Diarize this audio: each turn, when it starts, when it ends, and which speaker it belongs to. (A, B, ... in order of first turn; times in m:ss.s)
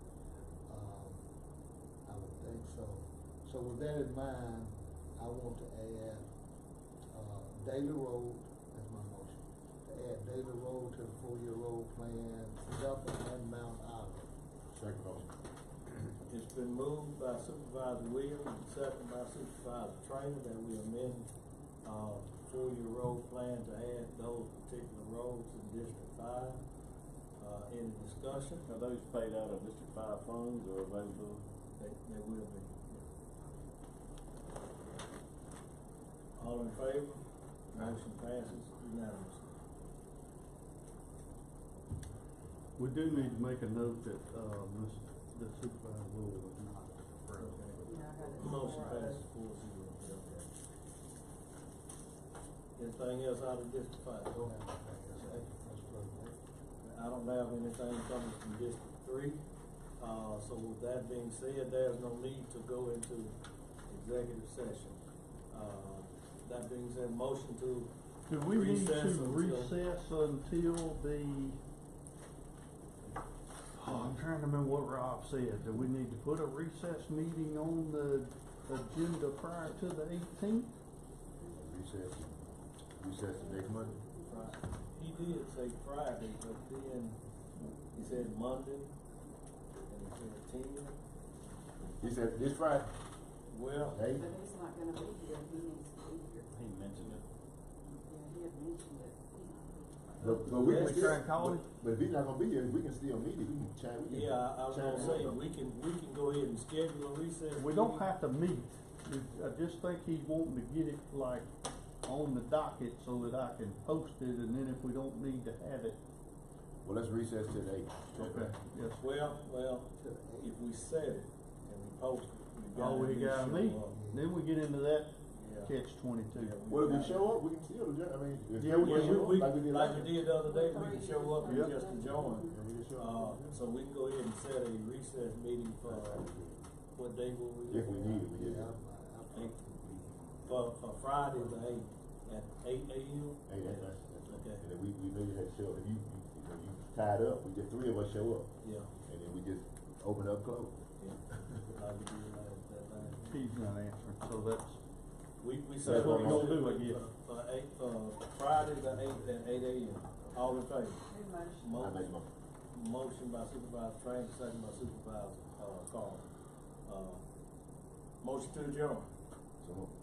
0:00.7-0:01.2 A
0:02.0-0:06.3 A
0:07.1-0:14.3 A
0:14.7-0:15.3 B
0:16.3-0:21.3 C
0:21.8-0:26.6 C
0:27.4-0:28.7 C
0:28.6-0:31.4 D
0:31.8-0:33.0 C
0:36.4-0:39.6 C
0:42.8-0:48.5 E
0:47.4-0:50.4 C
0:47.8-0:49.2 F
0:52.8-0:54.5 C
0:54.2-0:56.4 A
0:55.1-0:55.4 C
0:56.8-0:59.4 C
1:00.0-1:03.4 C
1:03.9-1:05.0 C
1:05.5-1:09.7 C
1:08.3-1:11.6 E
1:13.8-1:20.7 E
1:21.4-1:22.4 B
1:23.0-1:24.0 B
1:23.3-1:24.8 F
1:24.2-1:27.2 C
1:27.6-1:28.1 E
1:27.9-1:28.9 C
1:29.9-1:31.0 C
1:32.0-1:32.9 B
1:33.5-1:34.0 C
1:33.9-1:34.3 B
1:34.1-1:36.5 F
1:36.5-1:37.2 D
1:37.8-1:40.6 F
1:40.2-1:45.4 B
1:40.4-1:41.7 E
1:40.6-1:41.1 C
1:44.1-1:48.1 C
1:47.6-1:51.5 E
1:52.0-1:56.0 E
1:56.8-1:58.5 B
1:58.1-1:59.0 E
1:59.0-2:04.0 C
2:00.0-2:00.8 A
2:02.7-2:06.6 E
2:03.8-2:04.4 A
2:05.3-2:05.7 C
2:06.3-2:07.4 C
2:06.7-2:10.1 B
2:08.6-2:09.4 E
2:08.8-2:16.3 C
2:09.6-2:12.6 F
2:11.4-2:11.8 E
2:12.5-2:13.5 A
2:12.5-2:13.2 B
2:16.9-2:18.3 C
2:17.7-2:18.7 B
2:18.2-2:21.8 A
2:19.3-2:19.6 C
2:20.4-2:24.6 C
2:23.5-2:30.7 B
2:28.6-2:28.9 C
2:31.0-2:33.4 C
2:33.2-2:34.8 E
2:35.4-2:46.3 C
2:35.8-2:36.5 B
2:35.8-2:37.0 E
2:41.1-2:41.7 F
2:41.7-2:42.3 B
2:46.8-2:47.2 C
2:48.2-2:49.1 C
2:49.6-2:49.9 B